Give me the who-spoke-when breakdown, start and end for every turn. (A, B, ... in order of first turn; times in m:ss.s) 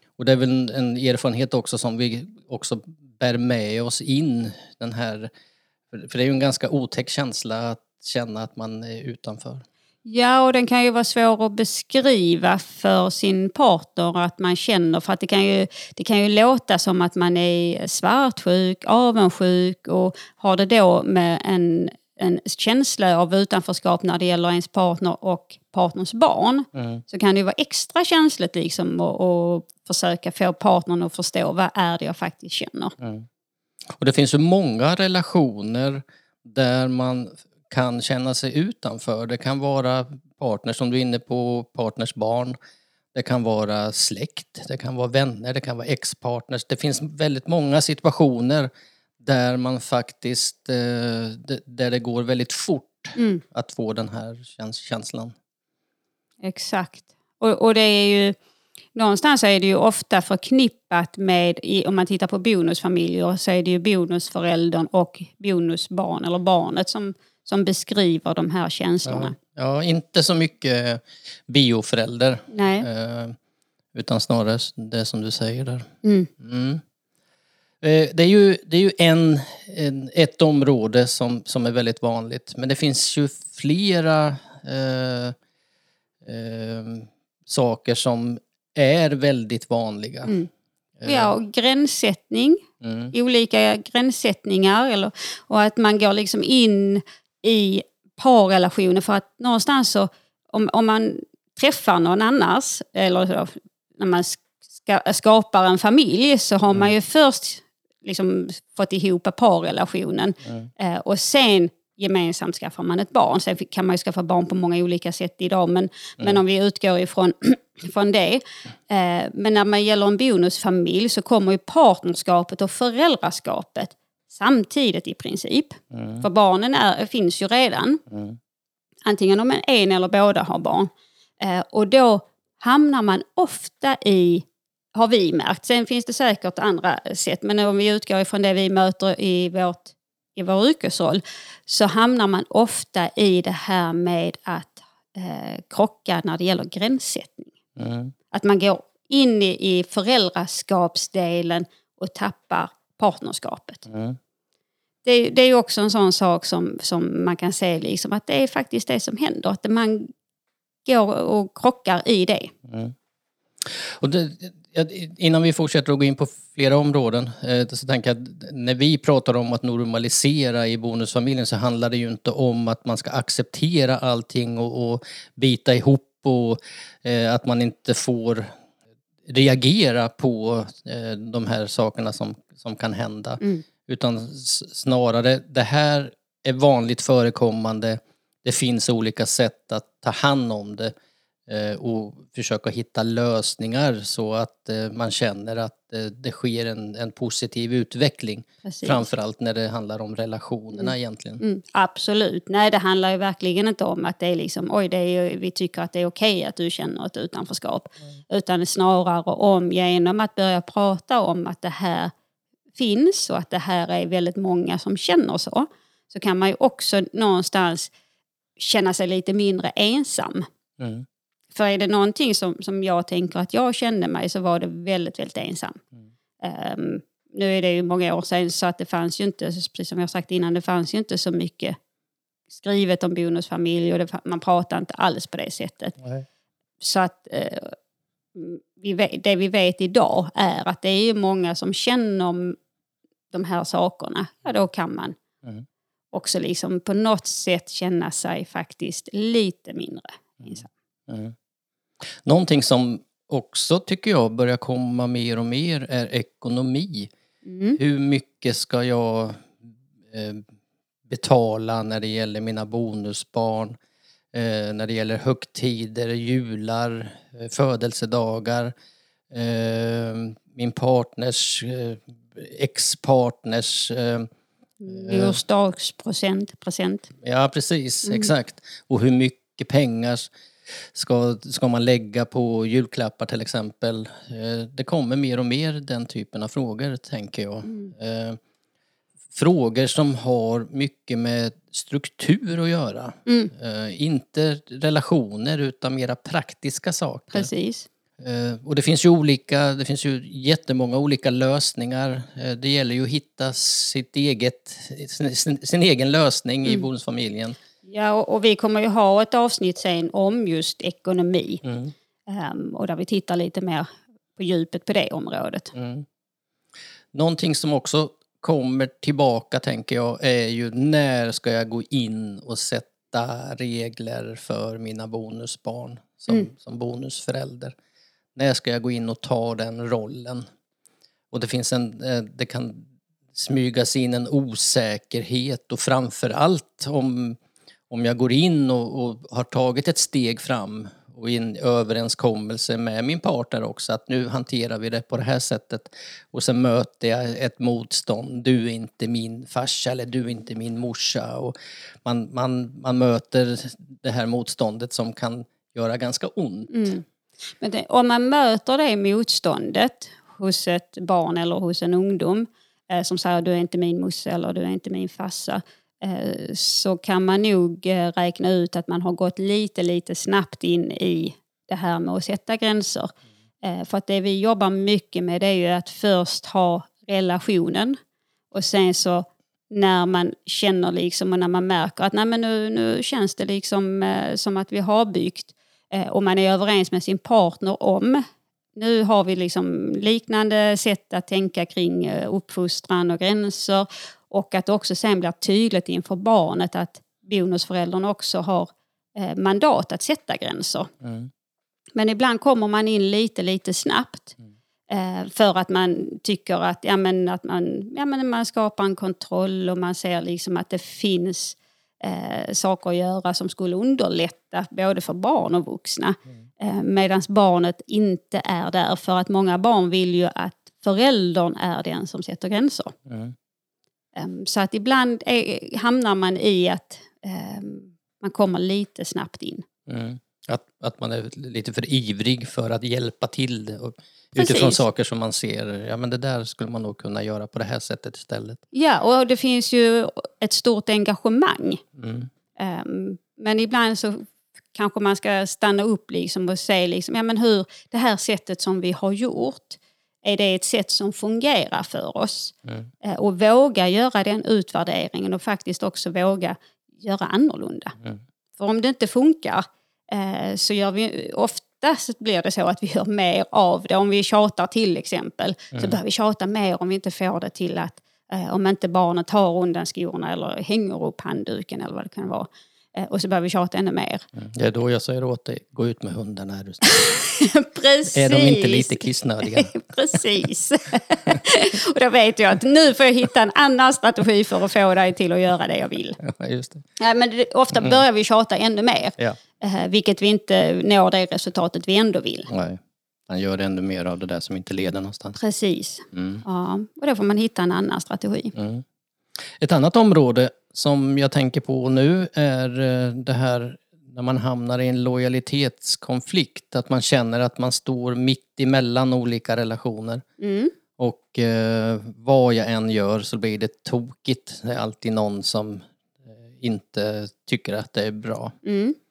0:00.2-0:05.3 A
0:05.9-0:09.6 A
0:10.0-0:33.0 B
0:26.7-0:27.0 A
0:33.0-0:33.3 A
0:34.0-0:42.6 A
0:43.1-0:48.7 A
0:49.2-0:55.3 A
0:53.2-0:53.4 B
0:56.4-0:58.4 B
0:59.0-1:09.4 B
1:09.0-1:13.4 A
1:12.5-1:12.9 B
1:13.9-1:15.9 A
1:16.0-1:16.3 B
1:16.4-1:16.8 A
1:17.8-1:25.4 A
1:26.2-1:30.4 A
1:31.0-1:31.4 A
1:31.0-2:08.0 B
1:32.8-1:33.1 A
2:05.9-2:06.2 A
2:08.1-2:08.4 A
2:09.0-2:27.5 B
2:27.8-2:28.1 A
2:28.3-2:33.8 B
2:33.9-2:34.2 A
2:35.0-2:40.1 B
2:40.8-2:42.5 B
2:42.7-2:42.9 A
2:43.7-2:58.5 A
2:59.3-3:10.9 A
3:11.5-3:21.4 A
3:18.6-3:19.1 B
3:20.8-3:32.1 B
3:32.8-3:37.9 B
3:38.6-3:40.5 B
3:40.8-3:41.0 A
3:41.5-3:45.8 B
3:46.4-3:51.8 B
3:52.5-3:56.0 B
3:56.8-3:57.8 B
3:58.4-4:02.6 B
4:03.3-4:05.2 B
4:06.1-4:10.7 B
4:11.1-4:11.3 A
4:12.2-4:17.1 A
4:17.4-4:17.8 B
4:17.8-4:20.4 A
4:21.1-4:23.8 A
4:24.3-4:28.7 A
4:29.3-4:34.3 A
4:34.8-4:37.1 B
4:34.9-4:35.4 A
4:37.2-4:40.3 A
4:38.0-4:38.3 B
4:40.9-4:48.4 A
4:49.4-4:57.5 A
4:53.3-4:53.5 B
4:57.3-4:57.9 B
4:58.2-5:07.6 A
5:07.8-5:11.6 B
5:11.6-5:11.9 A
5:12.3-5:15.7 B
5:15.7-5:16.0 A
5:17.1-5:27.8 A
5:28.4-5:30.4 A
5:31.3-5:37.4 A
5:37.9-5:56.9 A
5:56.7-5:57.0 B
5:57.6-6:18.0 B
6:18.5-6:28.2 B
6:28.8-6:40.9 B
6:41.0-6:41.3 A
6:42.0-6:44.4 B
6:44.9-7:03.0 B
7:03.1-7:03.4 A
7:04.2-7:09.7 B
7:09.9-7:18.6 A
7:14.4-7:14.8 B
7:18.7-7:21.8 B
7:22.0-7:22.3 A
7:22.6-7:38.0 B
7:38.6-7:54.2 B
7:54.4-7:57.0 A
7:56.9-8:06.2 B
7:58.1-7:59.7 A
8:06.2-8:06.8 A
8:07.0-8:12.5 B
8:12.5-8:15.4 A
8:15.4-8:18.6 B
8:16.1-8:16.4 A
8:18.6-8:18.8 A
8:19.6-8:30.2 A
8:30.4-8:30.7 B
8:31.0-8:35.8 A
8:36.6-8:38.6 A
8:38.6-8:39.0 B